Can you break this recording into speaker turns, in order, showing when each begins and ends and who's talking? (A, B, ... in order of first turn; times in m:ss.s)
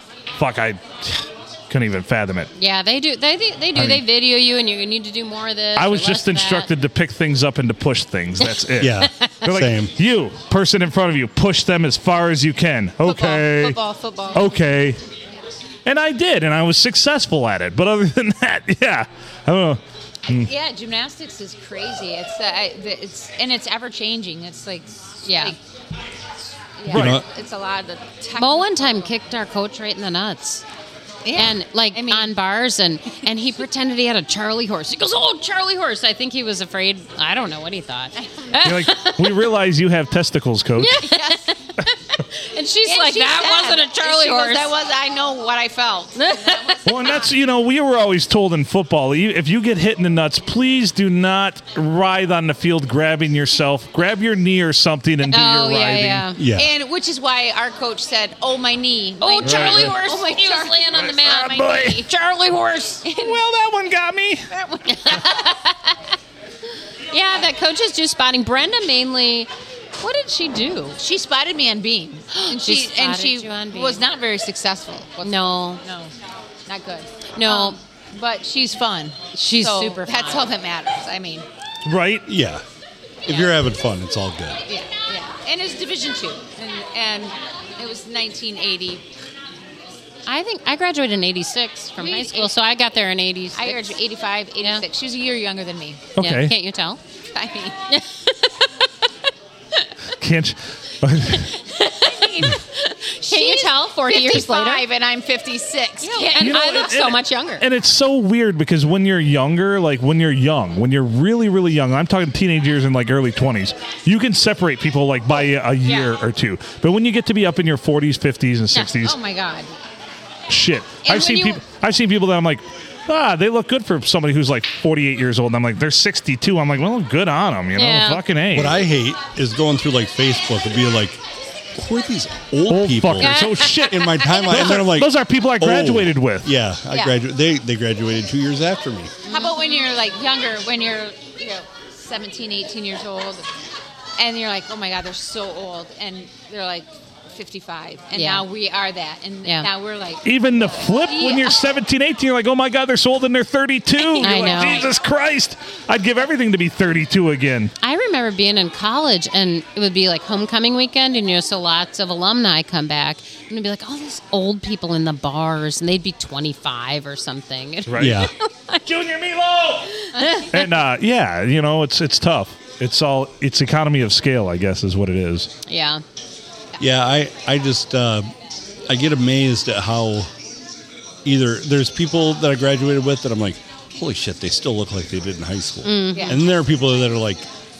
0:00.4-0:02.5 A
0:02.6-0:06.7 B
0:03.7-0:04.0 A
0:05.8-0:13.8 A
0:08.8-0:09.9 C
0:13.0-0:14.6 D
0:14.3-0:15.0 A
0:15.8-0:20.5 A
0:20.4-0:25.6 D
0:25.3-0:25.6 B
0:26.8-0:29.1 D
0:26.9-0:27.2 A
0:26.9-0:27.2 C
0:28.4-0:30.6 B
0:31.2-0:32.3 D
0:31.4-0:39.4 B
0:38.2-0:38.9 D
0:38.6-0:41.0 A
0:40.8-0:44.8 B
0:41.0-0:41.5 D
0:42.9-0:47.3 D
0:46.2-0:46.8 B
0:46.8-0:56.3 A
0:55.3-0:56.4 B
0:56.4-0:56.7 C
0:56.5-1:01.7 D
0:59.2-1:03.0 B
0:59.4-1:00.0 A
1:00.9-1:02.1 A
1:03.0-1:03.4 D
1:03.2-1:04.5 A
1:04.5-1:05.6 D
1:04.9-1:05.7 B
1:07.1-1:11.0 B
1:11.0-1:16.1 D
1:12.3-1:14.0 B
1:15.2-1:15.8 B
1:16.7-1:21.4 D
1:17.4-1:17.8 B
1:19.3-1:20.5 B
1:21.8-1:22.3 A
1:22.3-1:22.6 C
1:23.2-1:24.6 C
1:24.7-1:29.0 D
1:30.3-1:34.0 B
1:32.0-1:32.5 D
1:33.6-1:36.1 D
1:34.6-1:34.8 B
1:36.2-1:36.5 A
1:36.2-1:37.0 B
1:37.3-1:37.8 D
1:37.9-1:38.7 B
1:40.2-1:41.5 A
1:41.3-1:44.8 B
1:41.9-1:47.1 D
1:46.0-1:47.6 B
1:46.4-1:59.2 A
1:59.0-1:59.7 D
2:00.5-2:08.9 A
2:01.0-2:01.6 D
2:07.8-2:08.2 B
2:08.5-2:11.2 C
2:11.7-2:19.1 C
2:12.7-2:16.5 A
2:13.2-2:14.7 B
2:16.9-2:17.2 D
2:19.3-2:19.8 B
2:19.3-2:23.5 D
2:24.2-2:31.6 D
2:28.1-2:28.4 B
2:29.4-2:29.7 B
2:30.2-2:37.7 A
2:34.2-2:34.9 B
2:34.2-2:34.7 D
2:37.8-2:48.8 B
2:47.9-2:48.2 A
2:48.0-2:48.3 C
2:48.8-2:55.5 A
2:50.1-2:50.6 B
2:55.7-2:56.0 B
2:56.8-2:58.3 C
2:58.9-3:00.3 C
3:01.2-3:07.5 C
3:05.8-3:06.4 B
3:06.1-3:06.4 D